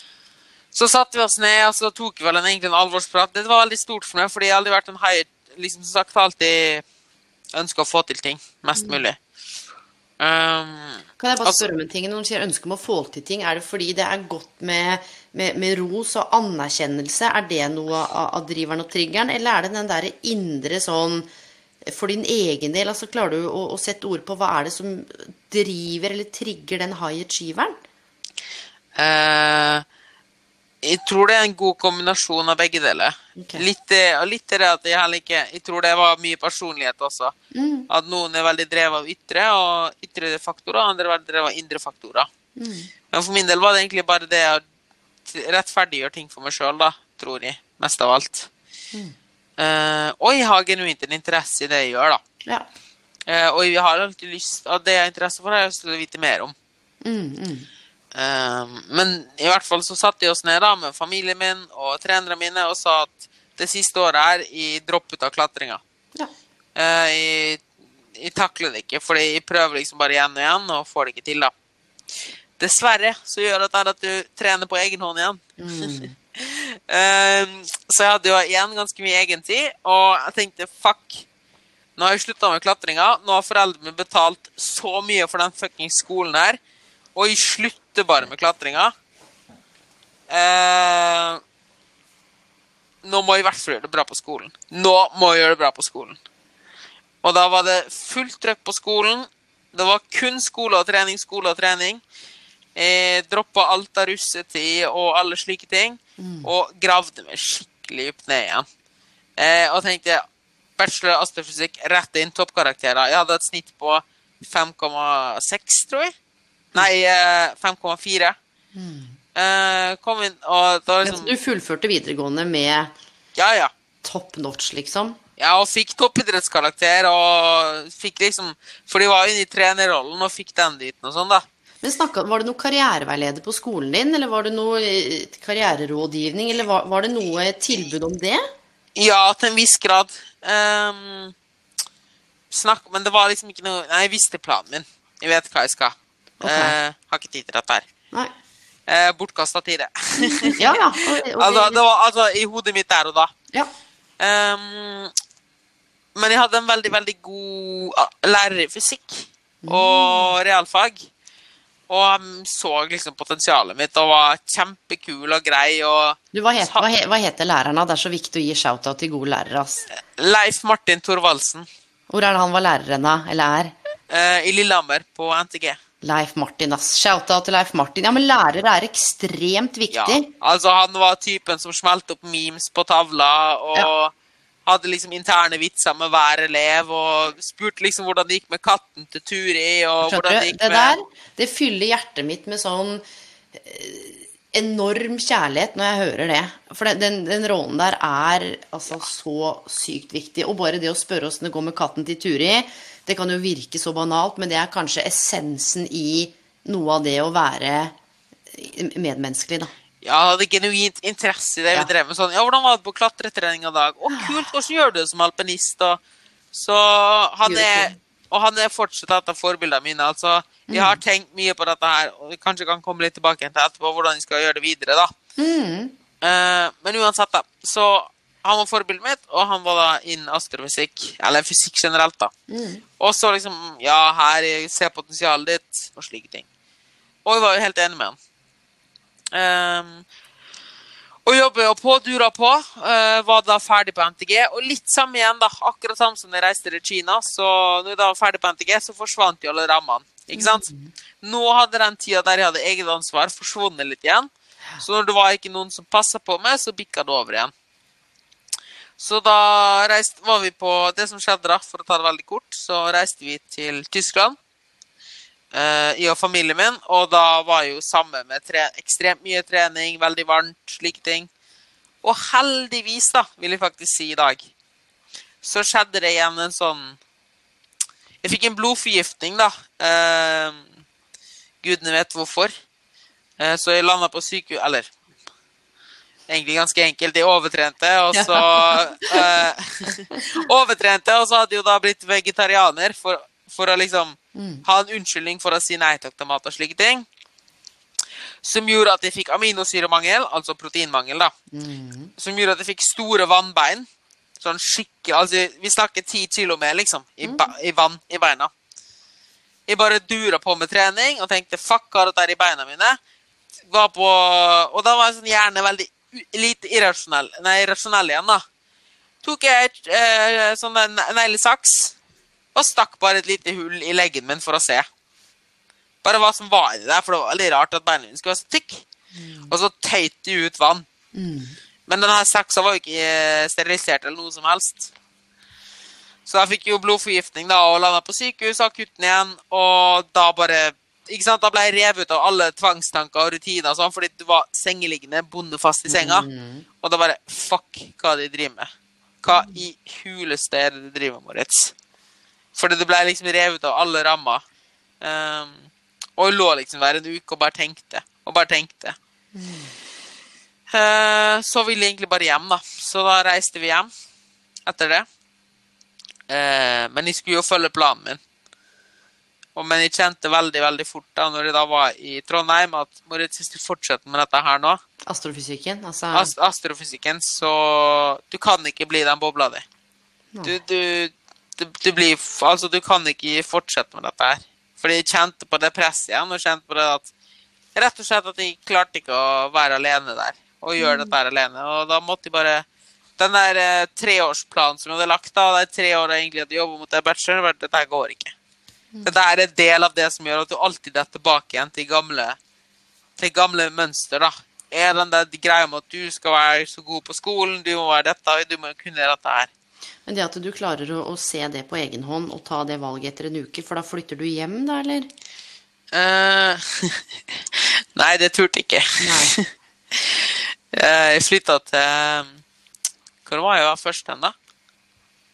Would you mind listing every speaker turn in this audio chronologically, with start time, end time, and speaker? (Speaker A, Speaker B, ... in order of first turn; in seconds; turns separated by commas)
Speaker A: 0.7-6.8, Speaker A: 7.5-9.2, Speaker B: 8.8-9.0, Speaker A: 10.2-11.7, Speaker B: 11.2-21.3, Speaker B: 21.8-27.8, Speaker A: 28.9-29.8, Speaker A: 30.8-37.3, Speaker B: 33.4-33.6, Speaker B: 37.5-37.9, Speaker A: 37.9-42.3, Speaker B: 42.6-42.9, Speaker A: 43.1-44.6, Speaker A: 45.2-48.5, Speaker A: 49.6-52.2, Speaker A: 53.3-56.5, Speaker B: 57.0-57.7, Speaker A: 58.1-65.8, Speaker A: 66.8-67.6, Speaker A: 68.1-71.5, Speaker A: 72.6-81.2, Speaker B: 75.6-76.2, Speaker A: 82.0-86.6, Speaker A: 87.2-88.9, Speaker A: 90.3-91.4, Speaker A: 93.0-96.2, Speaker A: 97.2-102.0, Speaker A: 102.8-108.7, Speaker B: 106.2-106.5, Speaker A: 109.4-110.2, Speaker A: 110.8-116.1, Speaker A: 116.7-118.3, Speaker B: 118.7-119.2, Speaker A: 119.3-121.3, Speaker B: 121.0-122.9, Speaker A: 123.3-123.7, Speaker B: 124.0-125.2, Speaker A: 125.4-131.4, Speaker B: 131.8-138.4, Speaker A: 138.9-141.3, Speaker A: 142.5-147.9, Speaker B: 146.4-146.8, Speaker A: 148.9-153.3, Speaker B: 150.2-151.8, Speaker A: 154.2-155.1, Speaker A: 156.1-161.1, Speaker B: 159.6-160.3, Speaker A: 161.9-166.8, Speaker B: 166.3-169.8, Speaker A: 169.9-171.7, Speaker B: 172.1-173.7, Speaker A: 174.1-175.8, Speaker B: 176.0-180.3, Speaker A: 179.9-184.1, Speaker A: 184.7-191.0, Speaker B: 190.0-207.9, Speaker B: 208.5-209.7, Speaker A: 210.0-216.0, Speaker B: 214.1-214.5, Speaker A: 216.5-225.1, Speaker B: 217.4-217.9, Speaker B: 220.7-221.0, Speaker B: 225.4-225.9, Speaker A: 226.2-232.3, Speaker B: 232.5-232.8, Speaker A: 233.0-236.4, Speaker A: 237.2-238.2, Speaker A: 239.3-240.0, Speaker A: 241.2-250.7, Speaker B: 250.3-250.9, Speaker A: 251.2-257.5, Speaker A: 259.0-264.4, Speaker A: 265.5-271.3, Speaker A: 272.0-274.5, Speaker A: 275.4-277.0, Speaker A: 278.2-280.6, Speaker A: 281.6-282.5, Speaker A: 283.4-284.9, Speaker A: 286.3-297.0, Speaker B: 288.1-289.3, Speaker B: 294.3-294.6, Speaker A: 298.4-301.3, Speaker B: 301.5-302.1, Speaker A: 302.2-303.9, Speaker A: 304.4-308.5, Speaker B: 307.2-307.5, Speaker A: 309.7-313.0, Speaker A: 313.7-318.4, Speaker A: 319.2-321.9, Speaker A: 322.5-324.9, Speaker A: 326.0-328.8, Speaker B: 329.1-329.5, Speaker A: 329.5-330.9, Speaker B: 331.1-331.6, Speaker A: 331.9-334.9, Speaker A: 336.2-346.3, Speaker B: 345.9-346.6, Speaker A: 346.8-348.7, Speaker A: 349.2-351.7, Speaker B: 349.3-349.6, Speaker A: 352.5-354.4, Speaker A: 355.0-358.9, Speaker B: 359.3-359.7, Speaker A: 360.7-363.9, Speaker A: 364.6-365.1, Speaker A: 366.3-368.2, Speaker A: 369.6-374.8, Speaker B: 375.1-376.3, Speaker A: 376.1-379.6, Speaker A: 380.4-387.1, Speaker A: 387.7-392.6, Speaker B: 390.8-391.1, Speaker A: 393.2-398.3, Speaker A: 399.0-402.4, Speaker A: 403.2-409.5, Speaker B: 410.1-415.1, Speaker A: 415.9-419.4, Speaker B: 419.0-419.4, Speaker A: 419.9-422.3, Speaker A: 423.2-424.3